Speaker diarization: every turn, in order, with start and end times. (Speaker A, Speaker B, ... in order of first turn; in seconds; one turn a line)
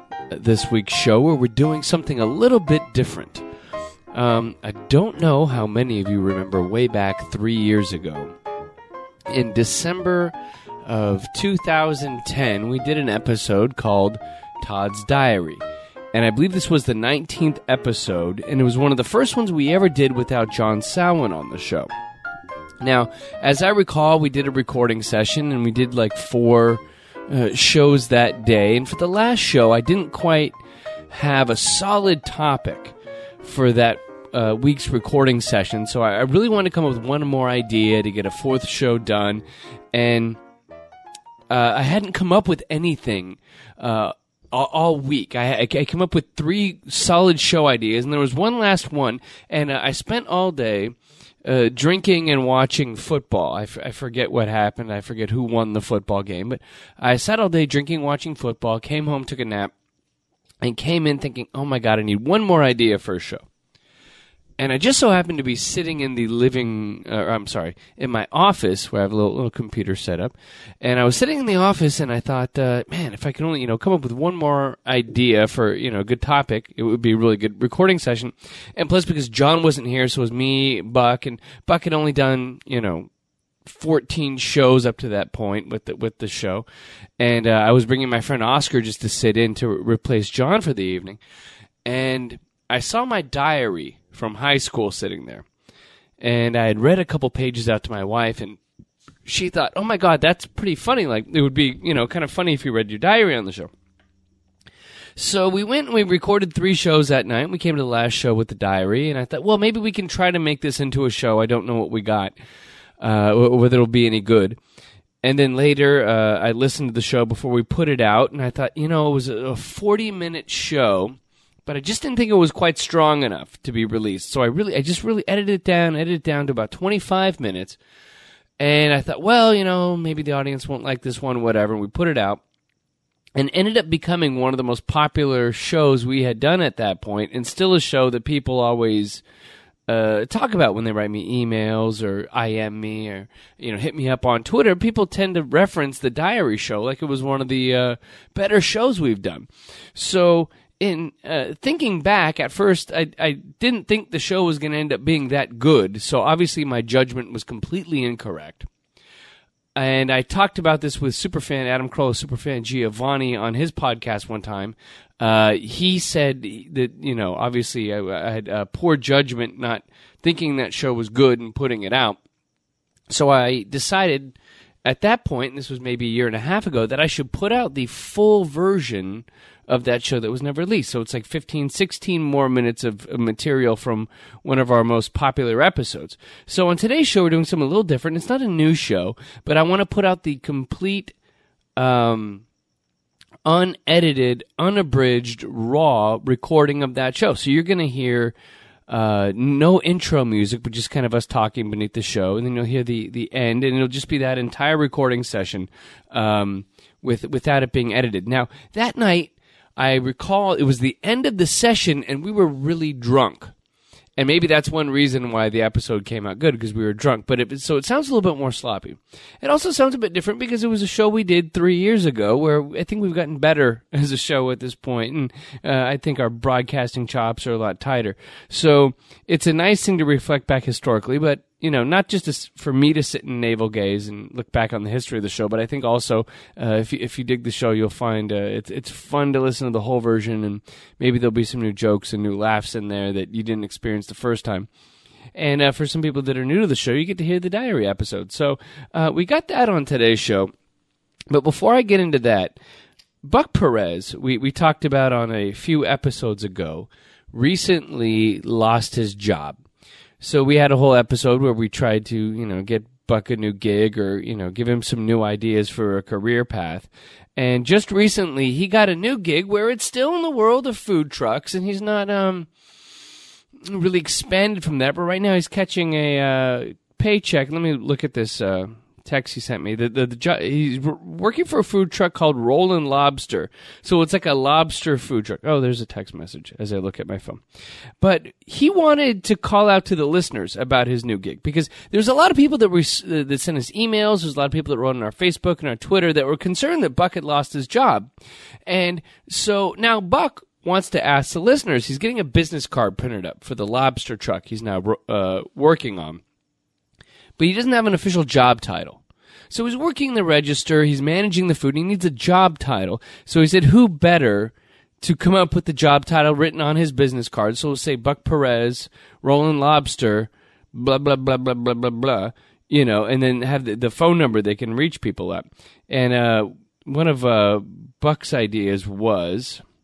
Speaker A: 0.3-3.4
Speaker A: 4.1-8.3
Speaker A: 9.3-10.3
Speaker A: 10.8-15.6
Speaker A: 16.1-21.9
Speaker A: 22.8-30.5
Speaker A: 31.1-40.4
Speaker A: 41.5-59.7
Speaker A: 60.6-63.4
Speaker A: 64.6-83.1
Speaker A: 83.7-86.6
Speaker A: 87.2-91.2
Speaker A: 91.8-95.4
Speaker A: 96.2-98.6
Speaker A: 99.2-103.7
Speaker A: 105.2-112.3
Speaker A: 113.0-114.6
Speaker A: 115.2-127.8
Speaker A: 128.6-132.4
Speaker A: 133.3-139.2
Speaker A: 139.9-158.7
Speaker A: 159.8-172.2
Speaker A: 173.1-191.1
Speaker A: 191.8-192.4
Speaker A: 193.4-198.3
Speaker A: 198.9-213.5
Speaker A: 214.2-244.7
Speaker A: 245.3-250.5
Speaker A: 251.3-252.6
Speaker A: 253.2-259.6
Speaker A: 260.2-272.5
Speaker A: 273.6-287.4
Speaker A: 288.0-298.1
Speaker A: 298.7-306.2
Speaker A: 307.4-329.6